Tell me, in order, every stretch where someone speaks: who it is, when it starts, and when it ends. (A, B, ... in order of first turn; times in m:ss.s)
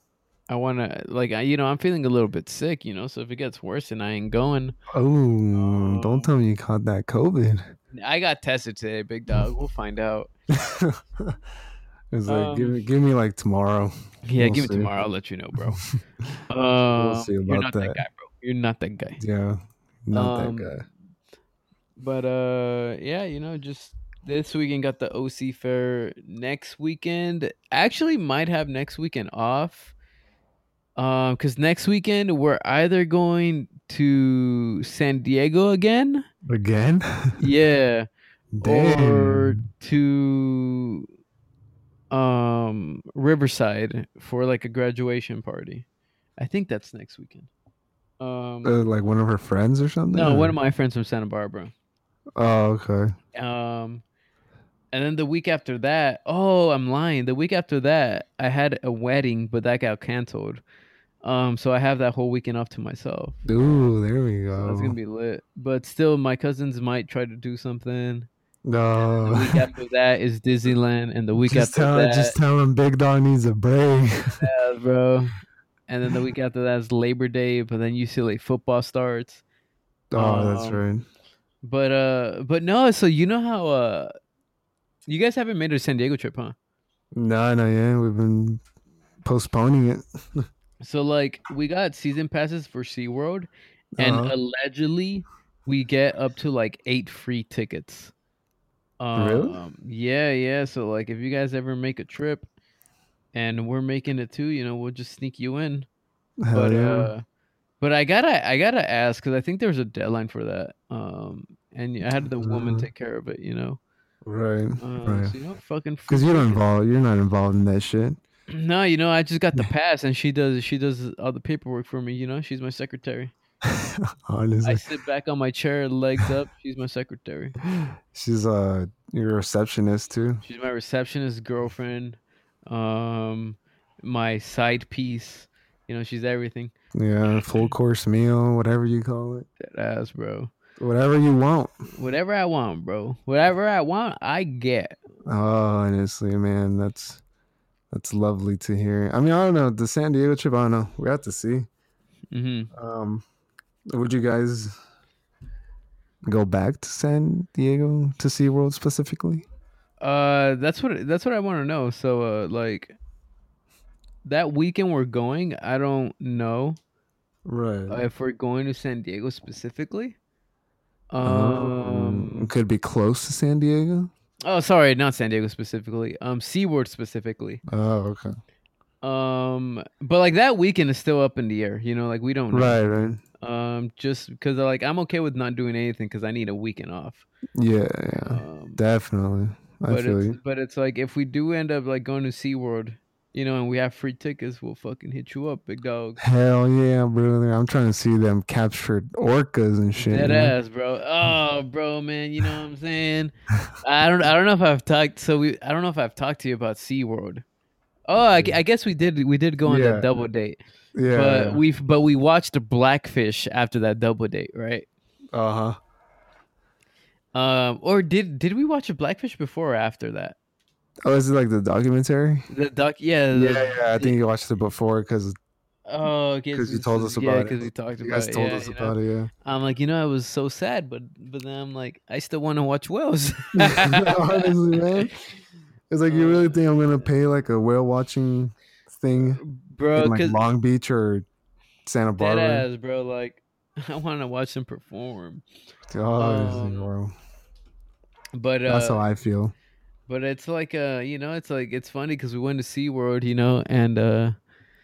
0:00.5-0:04.8 A
0:04.9-0:07.7 B
0:05.6-0:06.3 A
0:07.9-0:10.3 A
0:10.5-0:11.4 B
0:12.1-0:14.9 B
0:12.3-0:12.8 A
0:14.2-0:15.8 A
0:15.6-0:16.3 B
0:16.5-0:19.2 A
0:17.0-0:18.0 B
0:19.2-0:20.8 B
0:20.1-0:20.7 A
0:22.0-0:29.9 A
0:31.0-0:36.2 A
0:36.4-0:37.4 B
0:37.4-0:38.1 A
0:38.5-0:39.6 B
0:38.6-0:41.1 A
0:42.1-0:45.8 A
0:46.4-0:47.5 A
0:48.2-0:48.8 A
0:48.6-0:50.6 B
0:50.1-0:51.7 A
0:52.4-0:53.1 B
0:53.3-0:54.0 A
0:54.9-1:00.6 A
1:01.2-1:03.4 A
1:03.4-1:05.0 B
1:04.6-1:08.3 A
1:08.6-1:09.6 B
1:09.0-1:12.4 A
1:11.4-1:14.5 B
1:14.4-1:15.3 A
1:15.9-1:19.4 A
1:20.1-1:21.0 B
1:20.1-1:20.8 A
1:21.6-1:24.1 A
1:25.1-1:26.6 A
1:27.1-1:28.6 B
1:29.2-1:30.4 B
1:30.8-1:38.1 A
1:34.0-1:34.3 B
1:39.0-1:42.5 A
1:39.1-1:39.6 B
1:43.3-1:45.9 A
1:46.4-1:47.1 B
1:46.5-1:47.2 A
1:47.8-1:53.8 A
1:52.2-1:52.9 B
1:54.2-1:55.4 B
1:54.8-1:56.6 A
1:56.1-1:58.2 B
1:58.5-2:03.3 A
2:03.6-2:04.8 B
2:04.6-2:07.6 A
2:07.8-2:10.4 B
2:10.4-2:12.2 A
2:12.7-2:16.7 A
2:16.9-2:19.5 B
2:19.6-2:20.5 A
2:20.8-2:21.7 B
2:21.9-2:25.0 A
2:25.2-2:27.2 B
2:27.9-2:31.7 B
2:32.3-2:32.7 A
2:32.7-2:33.2 B
2:33.9-2:34.8 B
2:36.3-2:39.4 B
2:40.0-2:43.0 A
2:44.2-2:46.8 A
2:47.4-2:48.0 B
2:47.9-2:50.2 A
2:51.1-2:52.5 A
2:51.2-2:54.1 B
2:54.4-2:57.6 A
2:57.7-2:58.3 B
2:59.0-3:02.8 A
3:02.5-3:03.2 B
3:03.4-3:07.2 A
3:07.6-3:10.4 B
3:08.2-3:08.8 A
3:09.9-3:16.2 A
3:16.2-3:20.5 B
3:20.0-3:27.4 A
3:28.1-3:34.9 A
3:29.6-3:30.1 B
3:30.9-3:31.6 B
3:35.3-3:35.8 B
3:37.3-3:40.4 A
3:41.0-3:42.5 B
3:42.5-3:44.2 A
3:43.3-3:45.4 B
3:45.9-3:55.2 A
3:46.5-3:49.3 B
3:53.6-3:55.1 B
3:55.9-3:59.4 B
3:56.0-3:56.6 A
3:59.2-4:00.4 A
4:00.0-4:01.2 B
4:01.8-4:02.7 B
4:02.2-4:05.4 A
4:05.9-4:07.1 B
4:06.2-4:06.9 A
4:08.3-4:09.0 A
4:08.7-4:09.5 B
4:10.1-4:14.3 A